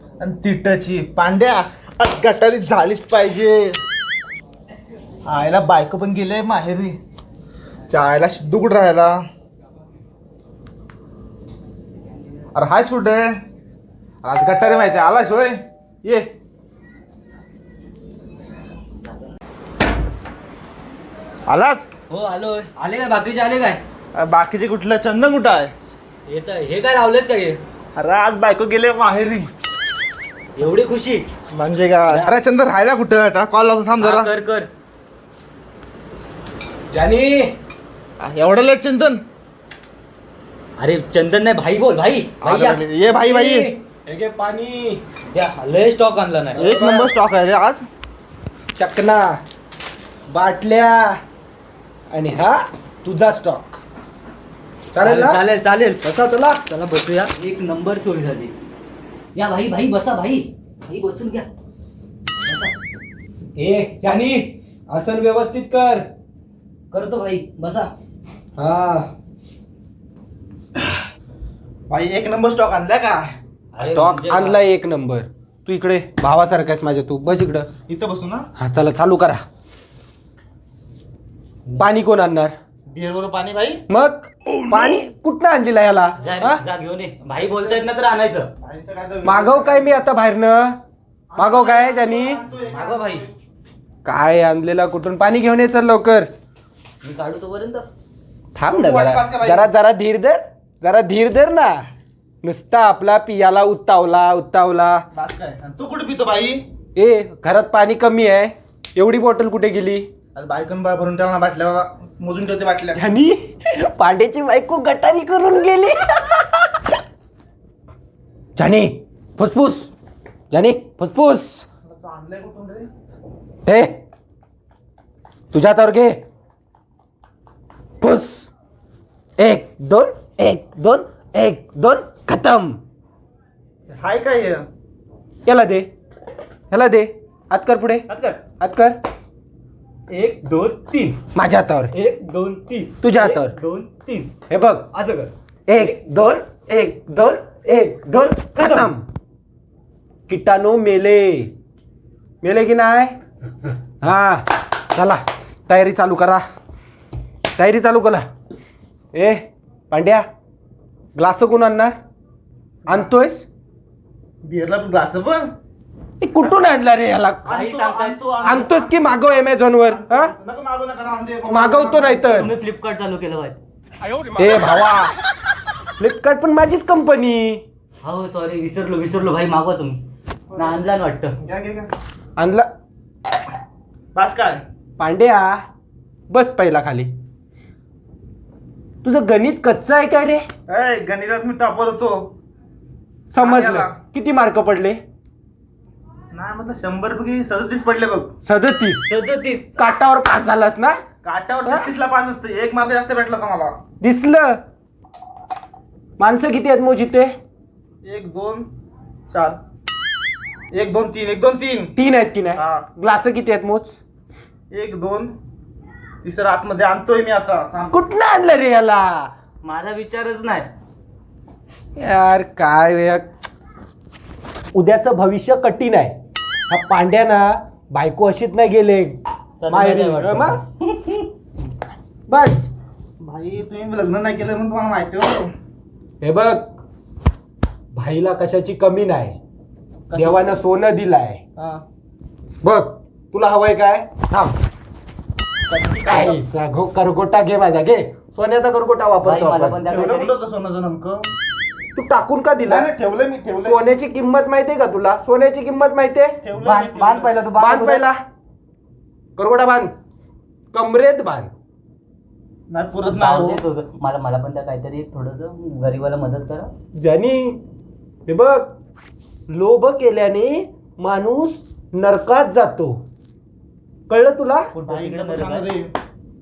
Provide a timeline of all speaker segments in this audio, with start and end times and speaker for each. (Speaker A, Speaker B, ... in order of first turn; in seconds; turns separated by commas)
Speaker A: 0.2-3.8, Speaker A: 5.2-7.0, Speaker A: 7.9-9.2, Speaker A: 12.5-13.4, Speaker A: 14.2-16.3, Speaker A: 21.5-21.8, Speaker B: 22.1-23.8, Speaker A: 24.1-25.7, Speaker B: 26.2-27.6, Speaker A: 27.9-29.5, Speaker B: 30.6-31.3, Speaker A: 31.5-34.3, Speaker B: 34.0-34.7, Speaker C: 36.9-37.5, Speaker A: 38.2-39.2, Speaker B: 40.8-42.8, Speaker A: 42.4-43.7, Speaker C: 43.1-45.0, Speaker B: 45.3-46.7, Speaker A: 46.5-47.9, Speaker C: 46.6-47.1, Speaker C: 48.7-49.4, Speaker C: 50.3-51.2, Speaker C: 52.1-53.8, Speaker C: 54.9-55.4, Speaker B: 55.0-56.0, Speaker C: 56.0-56.6, Speaker B: 56.6-58.5, Speaker B: 59.3-61.5, Speaker B: 62.4-62.7, Speaker C: 63.5-66.1, Speaker B: 66.9-67.9, Speaker C: 68.6-69.1, Speaker A: 71.9-73.3, Speaker B: 73.7-74.7, Speaker C: 73.8-77.7, Speaker A: 77.9-78.5, Speaker C: 78.6-79.4, Speaker C: 81.8-82.5, Speaker A: 82.9-83.8, Speaker C: 83.9-86.6, Speaker B: 86.2-88.5, Speaker A: 88.6-90.0, Speaker C: 89.2-90.8, Speaker A: 91.3-93.3, Speaker C: 91.4-92.4, Speaker B: 92.7-93.2, Speaker C: 94.0-96.3, Speaker B: 97.0-97.9, Speaker C: 98.5-101.8, Speaker A: 98.7-99.7, Speaker C: 102.4-105.0, Speaker A: 105.1-106.6, Speaker C: 107.0-110.1, Speaker A: 110.3-113.0, Speaker C: 112.9-116.9, Speaker C: 118.5-119.9, Speaker C: 120.5-121.6, Speaker A: 121.8-122.9, Speaker C: 123.6-124.0, Speaker C: 125.5-126.2, Speaker C: 128.0-128.5, Speaker C: 129.4-132.8, Speaker A: 133.9-134.7, Speaker C: 135.4-135.9, Speaker C: 136.7-138.1, Speaker B: 138.1-138.4, Speaker C: 138.6-139.0, Speaker B: 140.1-141.2, Speaker C: 141.3-141.9, Speaker B: 141.9-144.3, Speaker C: 143.0-143.5, Speaker C: 144.5-144.9, Speaker B: 144.9-146.0, Speaker C: 145.7-149.0, Speaker B: 148.6-148.9, Speaker C: 150.3-151.5, Speaker C: 152.4-153.1, Speaker C: 154.0-156.4, Speaker C: 157.6-158.3, Speaker C: 159.1-160.2, Speaker C: 161.1-161.9, Speaker C: 162.9-163.4, Speaker A: 164.4-165.5, Speaker C: 166.2-167.5, Speaker A: 167.4-169.0, Speaker B: 167.5-168.2, Speaker C: 168.4-170.3, Speaker A: 169.8-172.4, Speaker C: 171.4-172.5, Speaker B: 172.3-173.6, Speaker C: 174.3-175.1, Speaker C: 176.0-177.6, Speaker B: 178.0-180.0, Speaker A: 180.5-180.8, Speaker B: 180.6-181.4, Speaker A: 181.4-181.9, Speaker C: 182.4-182.7, Speaker A: 184.1-184.6, Speaker C: 185.0-185.6, Speaker C: 186.3-187.1, Speaker C: 189.0-190.4, Speaker A: 190.7-192.3, Speaker C: 193.3-195.0, Speaker A: 193.4-193.9, Speaker A: 196.3-198.3, Speaker C: 198.4-199.1, Speaker B: 199.0-199.9, Speaker C: 199.8-201.0, Speaker A: 201.2-203.7, Speaker C: 204.0-204.6, Speaker C: 206.2-207.3, Speaker A: 208.0-208.7, Speaker A: 209.3-209.6, Speaker A: 210.7-211.9, Speaker C: 211.9-213.9, Speaker A: 212.5-212.8, Speaker A: 214.7-215.3, Speaker A: 216.2-218.0, Speaker C: 217.9-219.3, Speaker B: 219.6-220.7, Speaker C: 221.9-223.3, Speaker C: 224.7-226.1, Speaker C: 226.7-230.6, Speaker B: 229.6-231.3, Speaker C: 232.3-232.7, Speaker A: 233.2-235.5, Speaker C: 236.2-236.7, Speaker C: 237.9-239.4, Speaker B: 240.1-240.6, Speaker C: 240.1-241.4, Speaker A: 241.6-241.8, Speaker C: 242.6-244.5, Speaker B: 245.7-246.3, Speaker C: 246.1-249.8, Speaker B: 249.2-250.3, Speaker A: 249.9-251.3, Speaker C: 251.9-252.9, Speaker A: 252.7-253.8, Speaker C: 253.6-256.4, Speaker A: 256.4-257.3, Speaker B: 256.5-258.1, Speaker C: 257.6-258.2, Speaker C: 259.4-259.9, Speaker C: 260.7-261.5, Speaker A: 262.7-263.6, Speaker B: 263.1-266.7, Speaker C: 267.0-267.6, Speaker C: 268.3-268.7, Speaker C: 269.5-273.0, Speaker C: 274.1-274.7, Speaker B: 274.7-275.7, Speaker A: 274.9-275.9